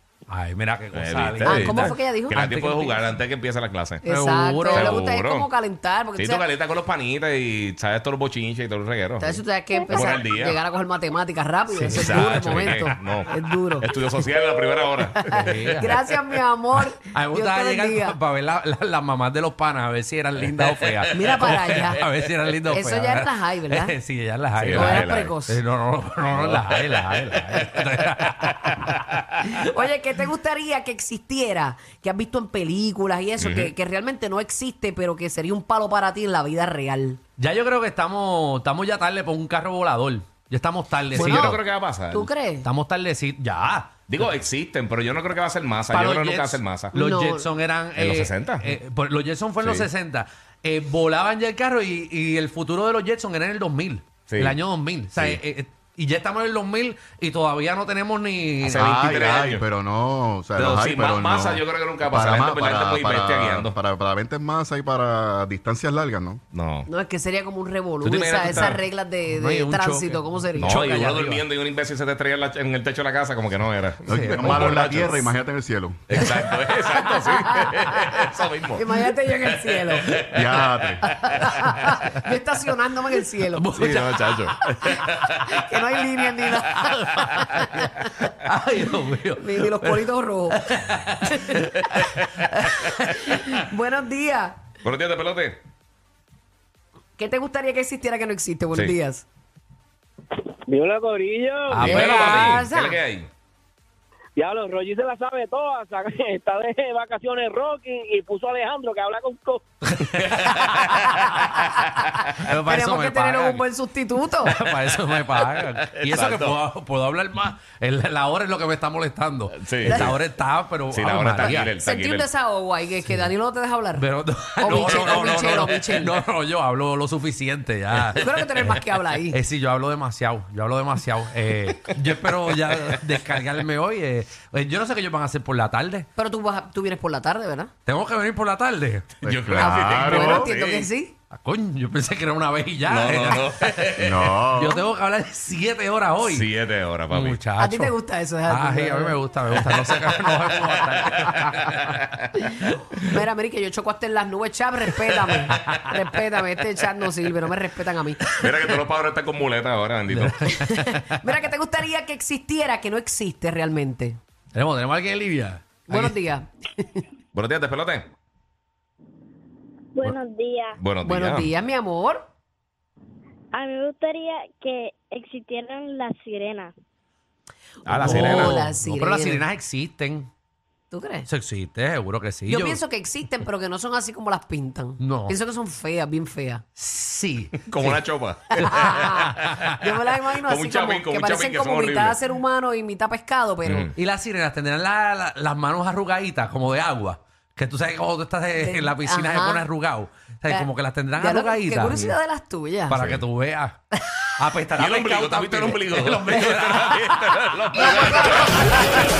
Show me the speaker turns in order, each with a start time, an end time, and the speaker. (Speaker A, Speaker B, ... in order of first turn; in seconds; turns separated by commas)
Speaker A: 0.3-1.9, Speaker B: 0.9-4.0, Speaker C: 1.4-3.1, Speaker C: 4.0-6.5, Speaker A: 4.1-5.0, Speaker B: 4.7-5.5, Speaker B: 6.2-9.4, Speaker C: 9.2-14.2, Speaker D: 9.7-10.2, Speaker B: 9.9-10.6, Speaker A: 11.7-12.9, Speaker B: 11.9-15.7, Speaker C: 15.0-18.2, Speaker A: 15.3-16.1, Speaker A: 17.1-29.1, Speaker B: 20.4-21.8, Speaker C: 21.1-22.0, Speaker C: 22.7-24.0, Speaker B: 24.6-25.4, Speaker C: 24.7-25.6, Speaker B: 26.3-27.4, Speaker B: 28.9-29.2, Speaker C: 29.5-37.2, Speaker B: 33.4-33.7, Speaker A: 37.4-41.6, Speaker B: 41.1-42.3, Speaker C: 41.1-42.7, Speaker A: 42.6-44.3, Speaker B: 44.1-47.0, Speaker A: 45.9-58.9, Speaker C: 46.9-47.5, Speaker B: 47.9-48.7, Speaker B: 49.6-49.9, Speaker B: 54.3-54.6, Speaker B: 55.1-55.4, Speaker B: 58.6-59.6, Speaker E: 58.7-66.4, Speaker B: 60.6-63.7, Speaker B: 66.5-66.9, Speaker C: 66.9-71.1, Speaker B: 68.0-68.8, Speaker A: 69.3-71.5, Speaker B: 70.6-75.3, Speaker E: 74.1-76.2, Speaker A: 74.1-74.8, Speaker B: 76.1-80.3, Speaker C: 76.2-80.2, Speaker E: 80.3-81.0, Speaker C: 81.1-83.7, Speaker B: 81.2-81.7, Speaker A: 83.5-85.0, Speaker B: 83.7-85.7, Speaker C: 84.6-88.3, Speaker A: 87.2-87.5, Speaker B: 87.3-87.6, Speaker A: 88.2-93.6, Speaker C: 89.4-91.6, Speaker C: 93.1-94.7, Speaker B: 94.8-95.6, Speaker C: 97.2-99.2, Speaker F: 100.7-102.2, Speaker A: 101.7-102.6, Speaker C: 101.8-103.0, Speaker B: 101.8-103.3, Speaker F: 104.4-109.6, Speaker A: 109.9-111.6, Speaker B: 110.2-112.4, Speaker C: 111.2-114.6, Speaker A: 112.4-113.6, Speaker A: 114.4-121.8, Speaker B: 115.6-116.6, Speaker B: 119.6-120.2, Speaker C: 119.8-120.2, Speaker B: 120.9-122.3, Speaker C: 121.4-124.1, Speaker A: 123.9-136.1, Speaker C: 124.6-126.2, Speaker B: 127.9-128.2, Speaker C: 128.2-129.4, Speaker C: 136.2-137.7, Speaker A: 137.9-139.1, Speaker E: 139.2-140.5, Speaker B: 139.2-140.9, Speaker C: 139.5-141.2, Speaker A: 141.3-144.0, Speaker B: 142.9-144.3, Speaker E: 144.0-144.8, Speaker A: 144.5-146.5, Speaker B: 146.2-147.4, Speaker A: 147.1-147.9, Speaker C: 147.5-149.2, Speaker A: 148.5-151.8, Speaker B: 149.6-152.4, Speaker C: 152.5-158.4, Speaker B: 155.1-155.4, Speaker A: 155.5-155.8, Speaker A: 158.3-158.6, Speaker B: 158.3-160.5, Speaker A: 160.1-161.3, Speaker C: 160.5-164.2, Speaker A: 164.5-166.2, Speaker C: 165.9-167.0, Speaker B: 167.3-168.1, Speaker D: 170.0-170.8, Speaker B: 170.8-171.5, Speaker C: 171.0-172.2, Speaker D: 173.5-176.7, Speaker B: 177.9-178.6, Speaker A: 178.0-180.3, Speaker C: 178.0-179.4, Speaker C: 180.9-181.3, Speaker A: 181.3-182.8, Speaker C: 182.5-186.6, Speaker A: 185.0-185.4, Speaker A: 186.8-188.0, Speaker B: 187.7-192.2, Speaker C: 188.5-193.9, Speaker A: 188.6-189.7, Speaker B: 193.7-193.9, Speaker A: 193.9-202.1, Speaker C: 198.6-199.7, Speaker C: 200.5-203.0, Speaker B: 201.9-202.2, Speaker A: 202.9-203.8, Speaker B: 202.9-203.2, Speaker A: 204.4-208.7, Speaker B: 204.8-208.8, Speaker C: 207.8-208.3